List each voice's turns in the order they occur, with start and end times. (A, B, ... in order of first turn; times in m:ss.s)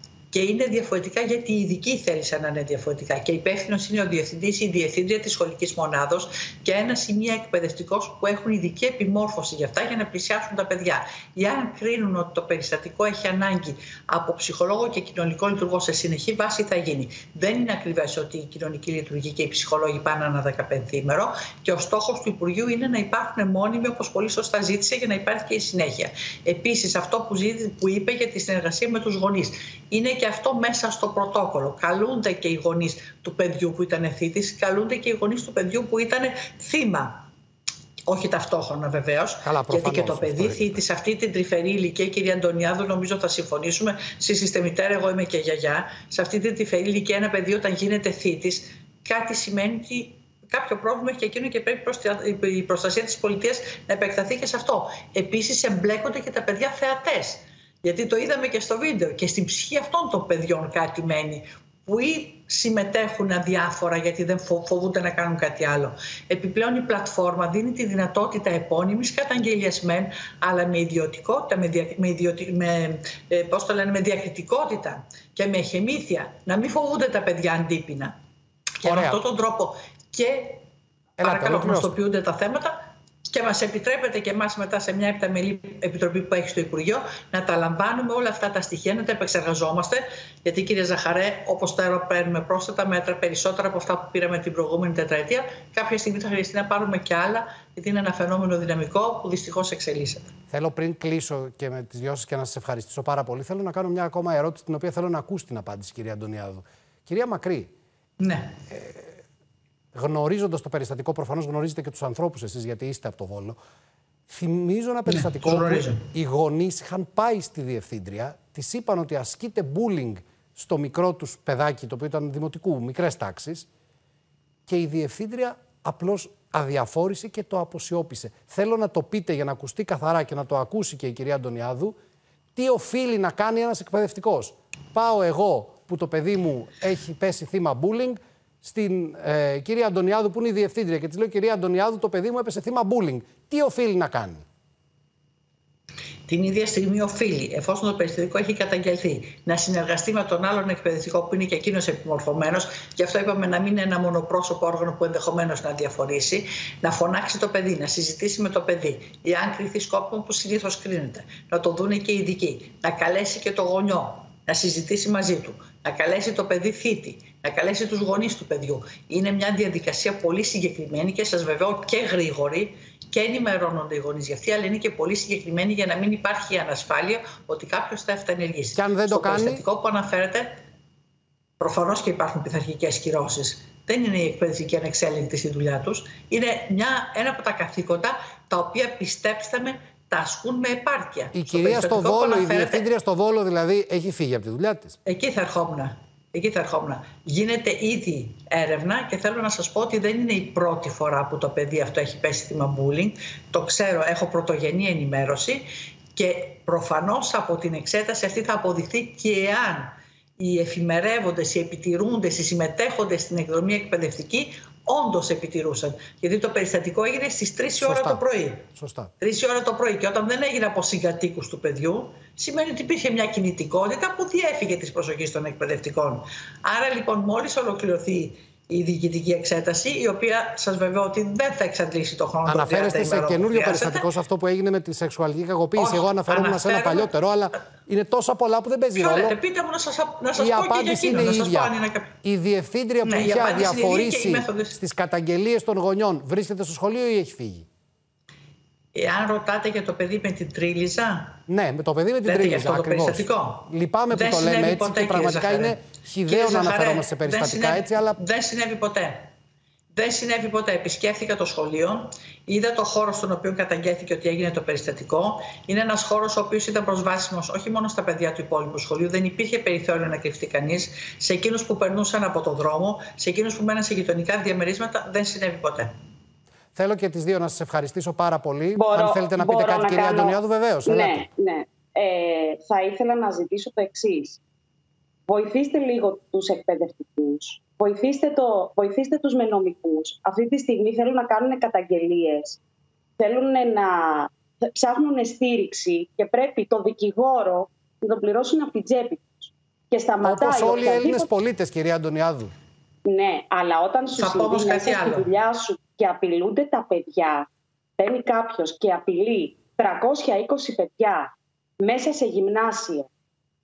0:00.3-0:37.2 A
0:38.1-1:18.2 A
0:39.4-0:40.8 B
1:18.8-1:20.6 A
1:18.8-1:19.2 B
1:21.2-1:22.0 B
1:21.2-1:40.3 A
1:40.5-1:47.7 B
1:48.2-1:48.5 A
1:48.7-1:49.2 B
1:49.9-1:53.6 B
1:54.3-2:03.7 B
1:55.1-1:56.0 A
2:04.7-2:12.0 B
2:12.6-2:24.4 B
2:26.3-3:00.6 A
2:58.8-2:59.6 B
3:01.6-3:12.8 A
3:11.3-3:15.0 B
3:15.0-3:38.7 A
3:37.8-3:38.2 B
3:38.7-3:39.1 B
3:39.2-3:54.1 A
3:52.4-3:59.4 B
3:55.8-3:57.1 A
3:59.0-4:02.1 A
4:00.4-4:07.7 B
4:03.0-4:04.8 A
4:08.9-4:11.4 A
4:11.5-4:18.2 B
4:12.2-4:19.3 A
4:19.9-4:35.9 A
4:36.7-4:41.3 B
4:38.7-4:44.4 C
4:45.3-4:52.6 C
4:53.2-5:01.3 C
5:00.2-5:02.5 B
5:03.0-5:13.1 C
5:04.2-5:05.3 A